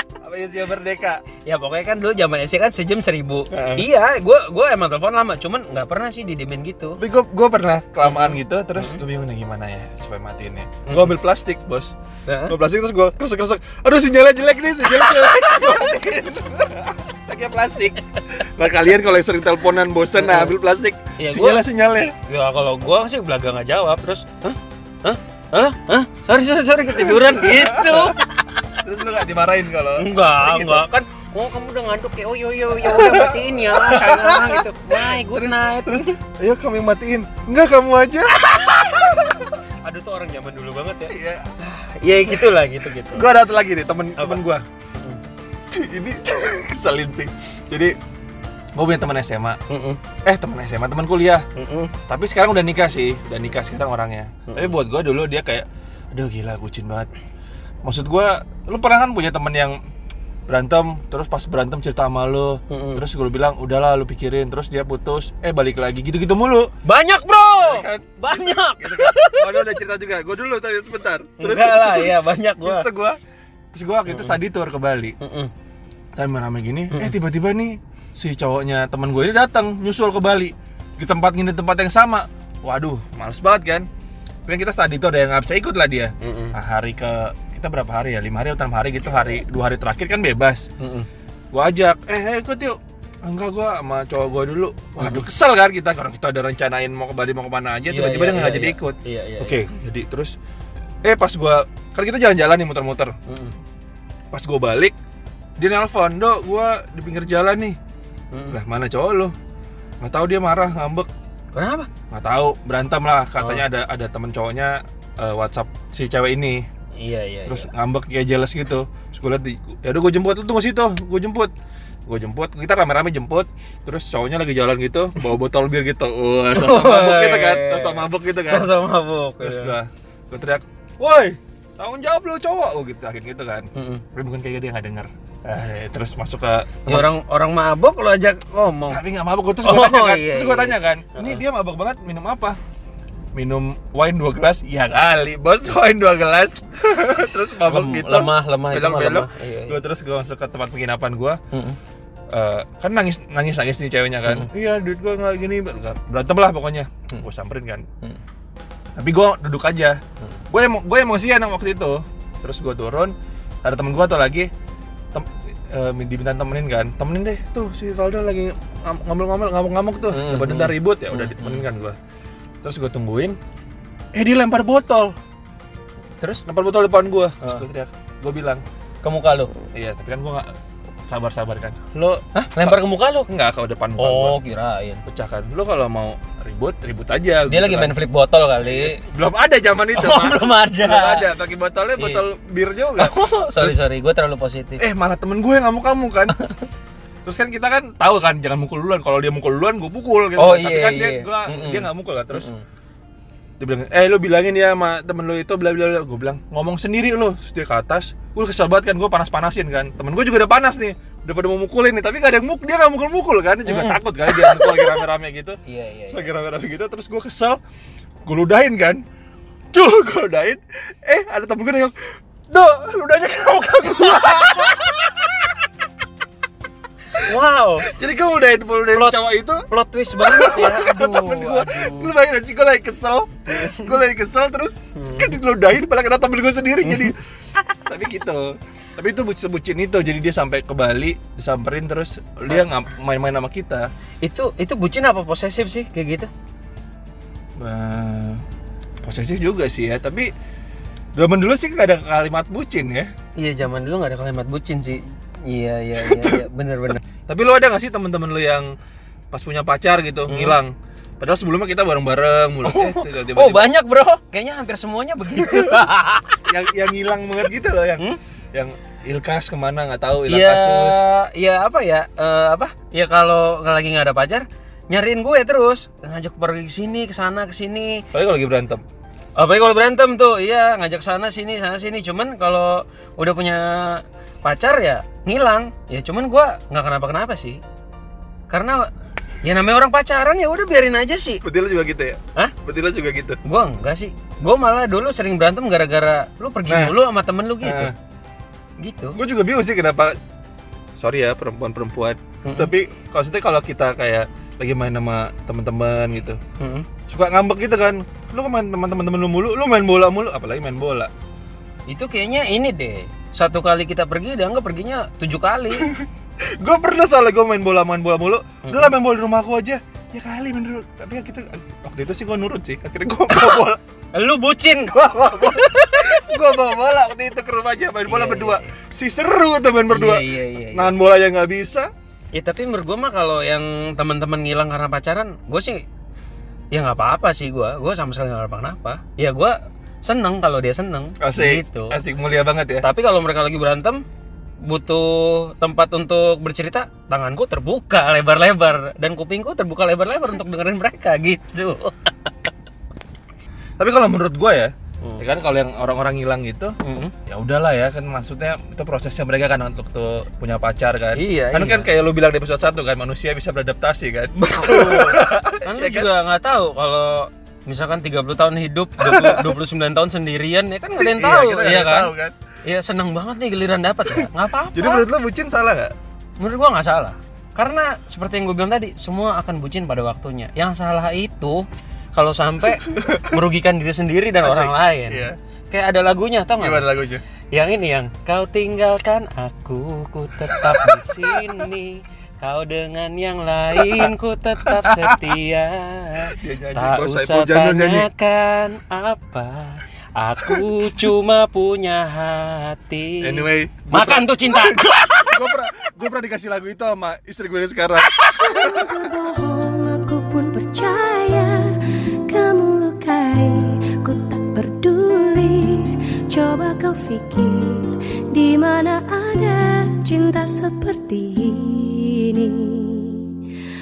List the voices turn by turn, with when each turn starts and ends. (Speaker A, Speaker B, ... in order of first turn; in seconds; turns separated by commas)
Speaker A: 0.2-1.2, Speaker B: 1.4-7.0, Speaker A: 3.5-3.9, Speaker A: 7.0-11.9, Speaker B: 8.0-9.0, Speaker B: 10.9-11.1, Speaker B: 12.3-12.6, Speaker A: 12.5-22.1, Speaker B: 14.9-15.8, Speaker B: 20.1-20.5, Speaker B: 21.2-21.6, Speaker B: 22.3-28.6, Speaker A: 26.9-28.2, Speaker A: 28.8-30.8, Speaker B: 30.0-36.1, Speaker A: 32.8-39.6, Speaker B: 38.4-39.2, Speaker B: 39.8-43.3, Speaker A: 41.1-41.5, Speaker A: 42.2-44.6, Speaker B: 45.0-45.2, Speaker A: 45.7-47.9, Speaker A: 48.8-49.6, Speaker B: 49.7-50.0, Speaker A: 50.2-51.4, Speaker B: 51.6-51.9, Speaker A: 52.1-57.1, Speaker B: 54.5-54.8, Speaker A: 57.8-59.8, Speaker A: 60.5-66.7, Speaker B: 62.7-63.0, Speaker B: 66.8-69.7, Speaker A: 67.6-68.1, Speaker A: 68.8-73.2, Speaker B: 71.4-72.9, Speaker A: 73.7-75.2, Speaker B: 74.1-74.4, Speaker B: 75.2-75.5, Speaker A: 76.2-83.9, Speaker A: 84.5-90.7, Speaker B: 86.2-86.6, Speaker B: 90.8-91.1, Speaker A: 91.5-100.3, Speaker B: 95.0-95.3, Speaker B: 97.9-99.6, Speaker A: 101.0-103.2, Speaker B: 103.3-103.5, Speaker A: 104.3-105.0, Speaker A: 105.6-107.8, Speaker B: 108.3-108.6, Speaker A: 108.5-109.3, Speaker A: 110.0-111.1, Speaker B: 111.5-111.9, Speaker A: 112.1-116.7, Speaker B: 113.4-113.6, Speaker B: 117.0-117.7, Speaker A: 117.5-121.5, Speaker A: 122.1-128.7, Speaker B: 126.5-129.8, Speaker A: 129.4-137.1, Speaker B: 133.8-134.0, Speaker B: 136.9-139.0, Speaker A: 138.9-142.6, Speaker B: 139.6-141.4, Speaker A: 143.3-151.4, Speaker B: 147.7-149.8, Speaker B: 151.5-151.8, Speaker A: 152.3-157.8, Speaker A: 159.0-160.0, Speaker A: 160.5-163.1, Speaker A: 163.6-164.5, Speaker A: 165.1-172.0, Speaker B: 170.1-171.7, Speaker A: 172.6-173.4, Speaker A: 174.1-175.1, Speaker A: 176.5-178.6, Speaker B: 179.0-179.5, Speaker A: 179.7-180.5, Speaker A: 181.1-184.4, Speaker B: 182.3-183.3, Speaker B: 184.0-185.0, Speaker A: 185.1-187.9, Speaker B: 187.5-189.0, Speaker A: 188.6-193.8, Speaker B: 189.9-191.3, Speaker B: 192.0-192.2, Speaker B: 193.0-194.8, Speaker A: 194.8-196.4, Speaker A: 197.2-202.5, Speaker B: 200.4-202.6, Speaker A: 203.6-215.6, Speaker B: 213.7-215.1, Speaker B: 215.7-216.3, Speaker A: 216.1-217.6, Speaker A: 218.3-219.0, Speaker A: 219.7-225.5, Speaker B: 227.1-227.9, Speaker A: 227.8-229.6, Speaker B: 228.9-229.2, Speaker B: 229.7-232.1, Speaker A: 230.2-237.2, Speaker B: 233.5-233.9, Speaker B: 235.0-235.3, Speaker B: 236.8-237.1, Speaker A: 237.9-243.8, Speaker B: 244.2-246.3, Speaker A: 247.6-248.4, Speaker A: 249.0-250.3, Speaker A: 251.2-253.1, Speaker B: 253.4-257.0, Speaker A: 256.0-256.5, Speaker A: 257.2-258.7, Speaker A: 259.3-263.7, Speaker B: 260.3-260.6, Speaker B: 262.7-266.4, Speaker A: 265.4-265.9, Speaker A: 266.4-271.1, Speaker B: 270.3-278.1, Speaker A: 278.1-278.8, Speaker B: 279.4-287.6, Speaker B: 288.5-288.9, Speaker B: 289.4-291.4, Speaker A: 291.4-293.4, Speaker B: 293.4-297.9, Speaker A: 296.7-297.0, Speaker A: 297.6-297.9, Speaker B: 298.8-299.2, Speaker A: 299.1-300.1, Speaker A: 301.0-306.4, Speaker B: 302.4-302.7, Speaker B: 306.6-306.9, Speaker A: 307.1-311.1, Speaker B: 311.9-315.9, Speaker A: 315.8-323.8, Speaker B: 318.6-318.9, Speaker B: 323.3-323.6, Speaker B: 324.1-326.2, Speaker A: 324.9-331.9, Speaker B: 328.1-328.7, Speaker B: 329.9-330.9, Speaker B: 332.4-335.9, Speaker B: 336.7-342.0, Speaker A: 341.2-342.9, Speaker B: 342.8-344.0, Speaker B: 344.6-352.3, Speaker A: 353.8-356.7, Speaker B: 356.8-357.1, Speaker A: 357.3-366.1, Speaker B: 361.1-361.9, Speaker B: 364.4-372.1, Speaker A: 369.0-369.5, Speaker A: 370.9-372.4, Speaker B: 372.6-375.1, Speaker A: 374.1-375.9, Speaker B: 376.4-386.9, Speaker A: 382.8-383.4, Speaker A: 384.4-385.4, Speaker A: 386.6-387.2, Speaker B: 387.5-405.5, Speaker A: 390.5-391.7, Speaker A: 393.8-394.1, Speaker A: 394.7-395.2, Speaker A: 396.3-398.1, Speaker A: 400.5-401.1, Speaker A: 403.2-409.0, Speaker C: 408.4-423.3